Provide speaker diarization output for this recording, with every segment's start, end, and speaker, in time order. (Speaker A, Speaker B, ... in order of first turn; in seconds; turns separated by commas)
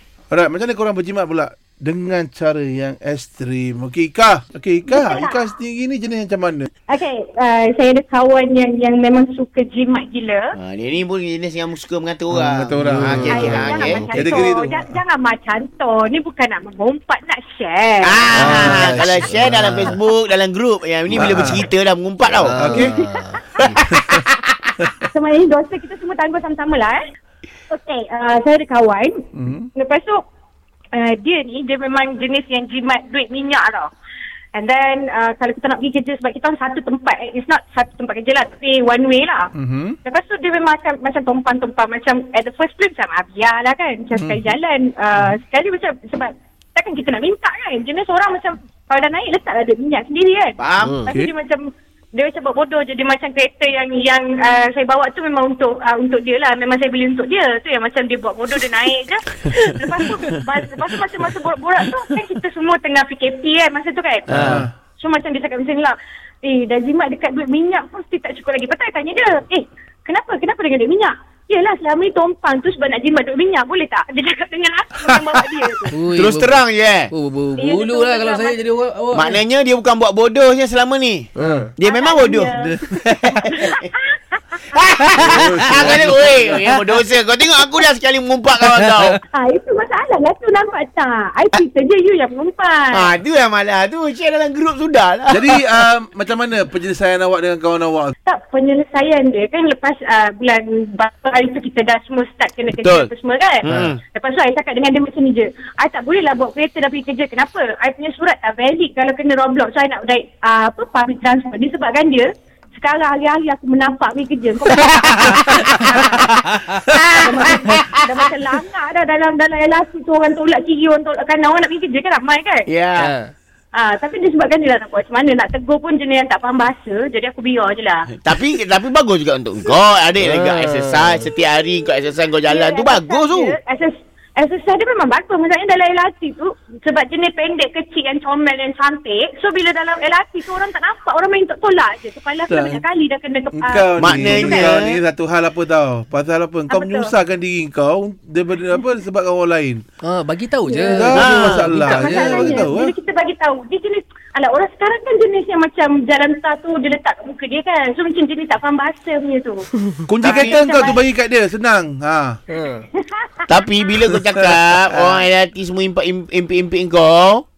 Speaker A: 0.3-6.7, Speaker B: 4.8-5.5, Speaker B: 6.9-10.5, Speaker C: 10.6-14.1, Speaker A: 12.3-13.6, Speaker D: 12.8-14.4, Speaker B: 13.3-19.1, Speaker A: 14.1-14.9, Speaker C: 18.0-22.9, Speaker D: 18.3-19.9, Speaker A: 18.4-19.2, Speaker A: 21.2-21.6, Speaker D: 21.2-21.4, Speaker D: 22.4-23.8, Speaker A: 22.6-22.9, Speaker C: 23.6-24.6, Speaker B: 25.1-27.0, Speaker B: 27.7-30.2, Speaker A: 29.3-29.7, Speaker B: 30.9-33.9, Speaker B: 34.5-39.5, Speaker A: 39.5-40.0, Speaker B: 40.0-64.4, Speaker A: 44.2-44.5, Speaker C: 50.6-51.1, Speaker D: 50.8-51.1, Speaker C: 64.3-64.6, Speaker D: 64.3-64.6, Speaker A: 64.3-64.7, Speaker B: 65.0-75.9, Speaker D: 75.9-79.4, Speaker C: 76.1-77.1, Speaker B: 77.6-78.6, Speaker C: 79.1-83.9, Speaker D: 81.4-81.7, Speaker B: 81.8-84.4, Speaker A: 82.6-83.2, Speaker C: 84.7-89.2, Speaker A: 85.2-86.6, Speaker D: 85.4-86.7, Speaker B: 89.3-93.1, Speaker C: 92.9-95.6, Speaker A: 95.3-98.1, Speaker B: 98.2-116.3, Speaker C: 102.7-103.1, Speaker C: 103.6-104.0, Speaker A: 115.0-115.8, Speaker C: 116.9-118.0, Speaker B: 117.1-122.7, Speaker C: 122.7-123.1, Speaker D: 123.0-123.3, Speaker B: 123.7-128.1, Speaker C: 128.2-133.6, Speaker D: 130.2-131.2, Speaker B: 132.4-144.7, Speaker A: 142.5-142.8, Speaker A: 143.5-149.8, Speaker C: 144.0-145.0, Speaker B: 146.7-147.1, Speaker D: 150.0-152.7, Speaker B: 150.7-151.2, Speaker A: 150.9-152.9, Speaker C: 151.1-151.7, Speaker B: 151.8-159.7, Speaker A: 160.1-162.4, Speaker B: 160.2-161.0, Speaker C: 160.2-160.5, Speaker D: 162.5-162.8, Speaker B: 162.6-163.6, Speaker C: 163.5-167.4, Speaker A: 164.3-165.2